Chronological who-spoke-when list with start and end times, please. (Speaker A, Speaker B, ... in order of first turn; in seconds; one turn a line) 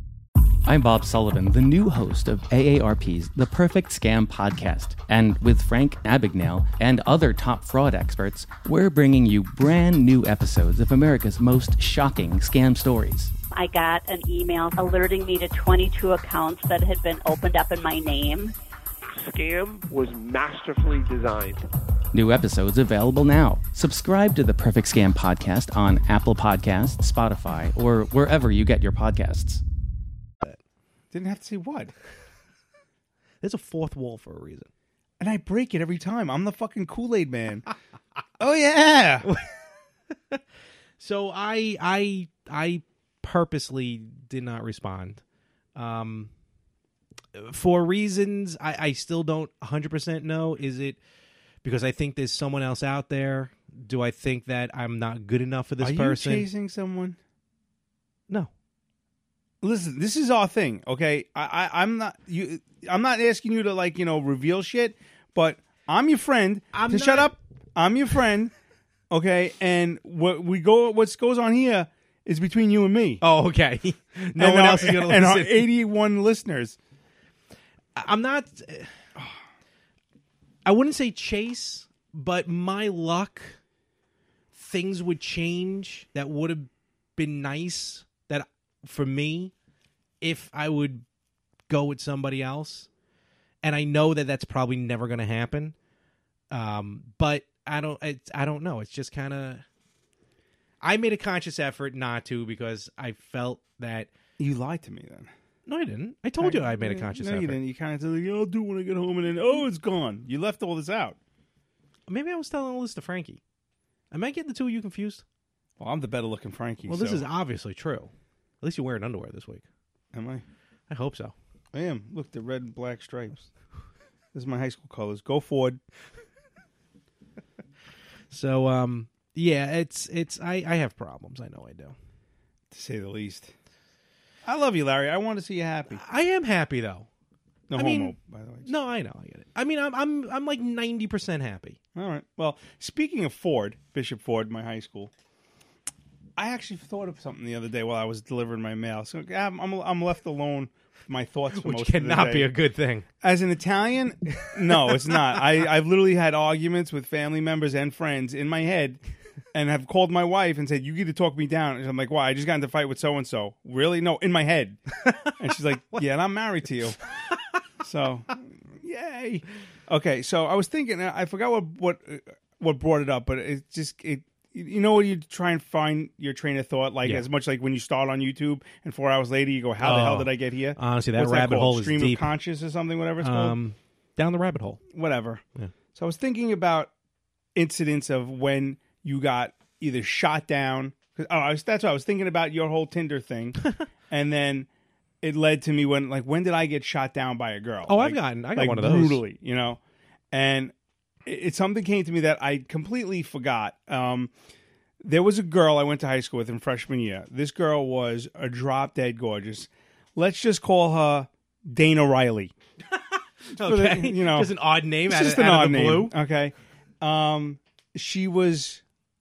Speaker A: 0.7-13.3
Speaker B: 13.5-18.5
Speaker C: 19.1-21.6
Speaker A: 22.1-29.6
Speaker D: 31.1-31.9
Speaker E: 33.4-34.7
Speaker D: 35.2-37.7
Speaker D: 38.4-39.3
Speaker E: 39.2-39.5
Speaker E: 40.1-40.4
Speaker E: 41.0-45.2
Speaker E: 45.8-46.3
Speaker E: 47.3-51.0
Speaker E: 51.6-56.5
Speaker D: 55.8-57.2
Speaker D: 59.6-68.5
Speaker E: 66.7-67.3
Speaker D: 69.1-73.2
Speaker E: 73.2-75.7
Speaker D: 74.4-76.8
Speaker E: 78.0-78.9
Speaker E: 80.7-83.6
Speaker E: 84.5-89.5
Speaker E: 90.2-91.0
Speaker E: 91.7-92.9
Speaker E: 93.6-95.7
Speaker E: 96.5-99.6
Speaker E: 100.8-104.1
Speaker D: 104.4-105.3
Speaker E: 105.7-107.6
Speaker D: 106.4-111.2
Speaker E: 112.1-113.4
Speaker E: 114.1-115.2
Speaker D: 115.8-117.2
Speaker E: 116.8-119.6
Speaker D: 120.1-120.4
Speaker E: 120.9-121.3
Speaker D: 121.7-123.5
Speaker D: 124.3-125.8
Speaker E: 128.3-131.9
Speaker D: 132.7-133.5
Speaker D: 134.4-136.0
Speaker E: 135.9-137.1
Speaker D: 137.7-138.7
Speaker E: 137.7-141.8
Speaker D: 141.9-145.1
Speaker D: 146.3-152.5
Speaker E: 151.5-153.1
Speaker D: 153.2-159.0
Speaker E: 154.7-155.4
Speaker D: 159.5-167.0
Speaker E: 165.1-165.3
Speaker D: 167.8-183.6
Speaker E: 179.8-182.3
Speaker E: 183.2-184.8
Speaker D: 184.9-185.4
Speaker D: 185.9-186.9
Speaker D: 187.5-194.7
Speaker D: 195.2-199.8
Speaker E: 197.9-199.2
Speaker D: 200.3-200.7
Speaker D: 201.2-204.3
Speaker D: 205.0-212.5
Speaker E: 213.5-216.2
Speaker D: 213.6-218.8